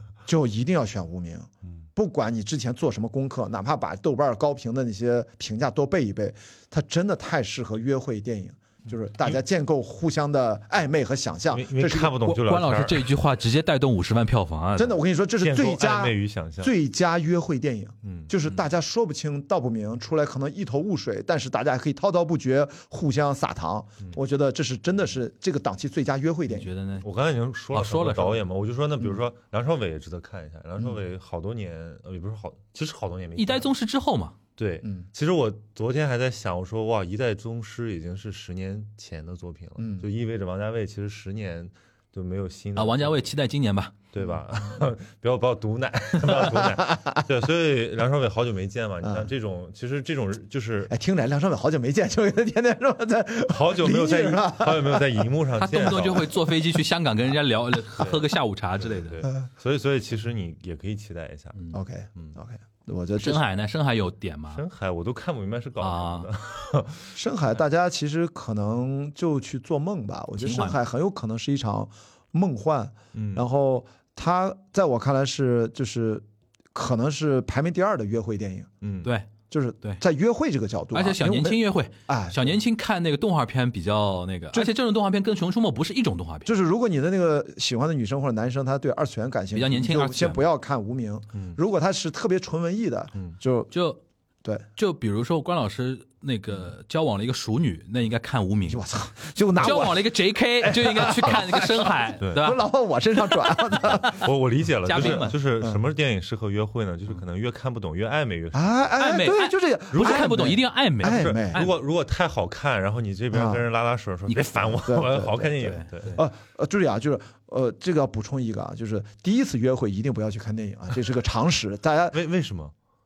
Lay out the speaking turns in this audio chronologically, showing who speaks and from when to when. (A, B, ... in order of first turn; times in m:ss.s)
0:00.2-0:12.4 A
0:11.5-0:13.2 B
0:12.3-0:15.0 C
0:14.8-0:26.7 A
0:15.4-0:16.7 B
0:18.0-0:18.6 B
0:26.5-0:27.0 C
0:27.0-0:33.7 B
0:27.7-0:28.4 C
0:33.4-0:34.4 C
0:34.6-0:43.3 B
0:39.8-0:40.0 A
0:42.8-0:43.9 C
0:44.1-0:50.9 B
0:46.5-0:47.2 A
0:49.0-0:49.3 A
0:50.9-0:55.1 A
0:53.5-0:56.4 B
0:55.6-0:59.2 C
0:58.0-1:01.6 B
1:01.7-1:03.4 A
1:03.2-1:04.6 C
1:04.5-1:07.1 B
1:05.8-1:06.3 C
1:07.1-1:18.7 A
1:10.4-1:10.8 C
1:13.1-1:13.4 B
1:18.8-1:19.1 B
1:19.5-1:22.5 A
1:20.9-1:26.5 C
1:26.4-1:33.7 A
1:29.5-1:30.4 C
1:33.7-1:34.0 C
1:34.8-1:38.8 C
1:38.7-1:40.0 A
1:39.6-1:42.7 C
1:40.6-1:44.2 A
1:42.2-1:42.4 B
1:43.3-1:44.2 C
1:43.9-1:48.9 B
1:44.8-1:45.3 C
1:45.0-1:45.8 A
1:48.5-1:51.6 A
1:49.0-1:51.8 C
1:51.0-1:56.2 B
1:53.3-1:53.6 A
1:54.8-2:02.2 A
1:55.6-1:55.9 C
2:02.1-2:02.7 B